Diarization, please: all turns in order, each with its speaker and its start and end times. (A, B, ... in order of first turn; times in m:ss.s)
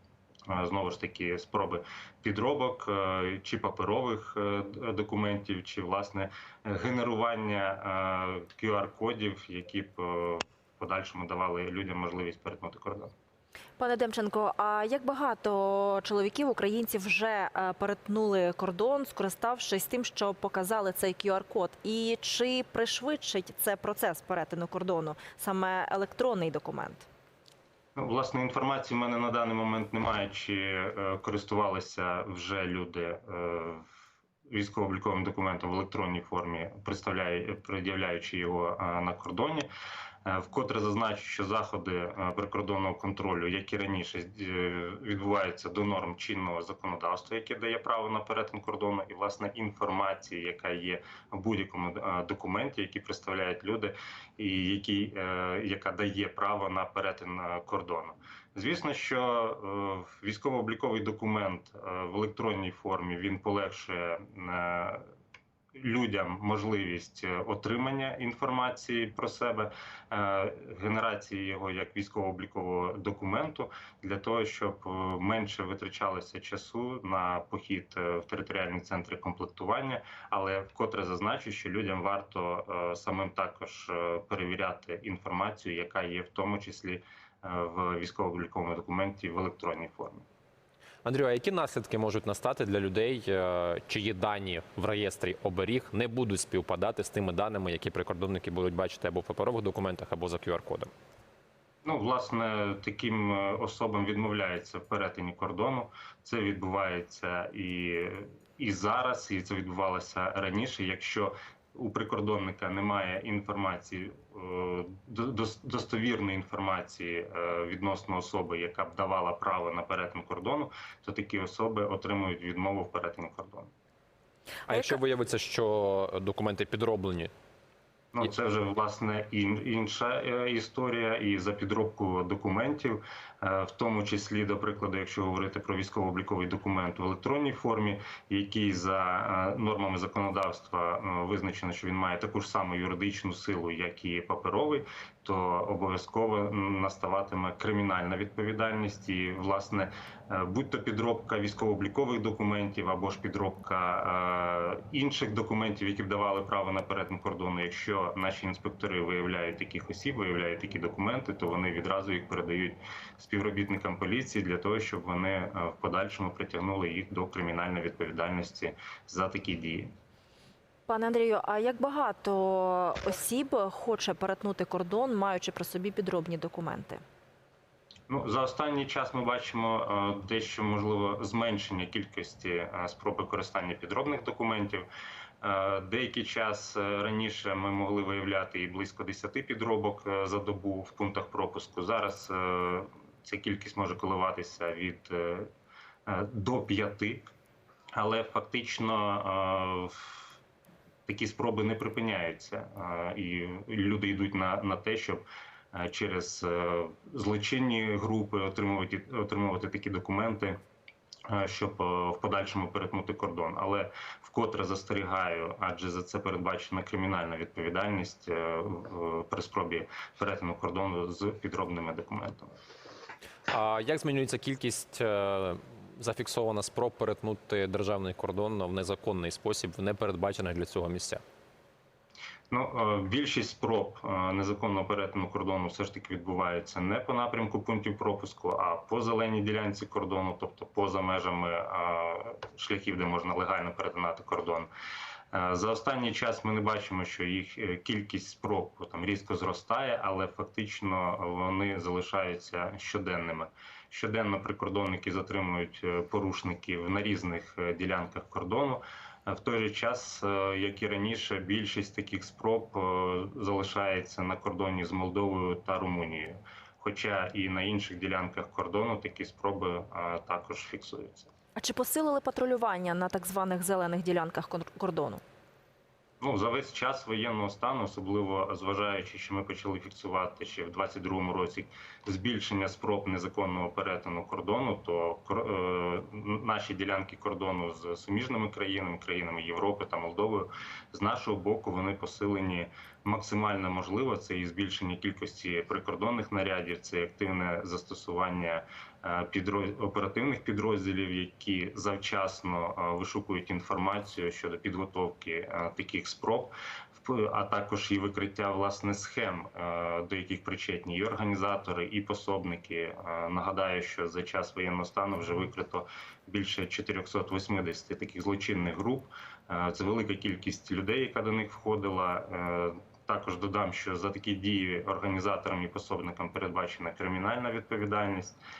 0:00.5-0:13.1 A
0:13.8-0:27.1 B
0:27.9-0:33.9 A
0:34.5-0:39.7 A
0:40.2-1:05.1 A
1:05.7-1:30.3 A
1:31.0-1:40.9 C
1:41.8-2:03.7 A
2:04.7-2:07.3 C
2:08.1-2:49.9 A
2:50.9-2:57.0 B
2:58.1-3:04.9 A
3:05.4-3:15.5 A
3:16.0-3:17.3 A
3:18.0-3:20.4 A
3:21.1-3:30.6 A
3:31.3-3:42.6 A
3:43.5-3:51.2 C
3:52.5-4:04.7 A
4:05.3-4:31.3 A
4:31.6-4:35.2 B
4:36.2-5:28.4 A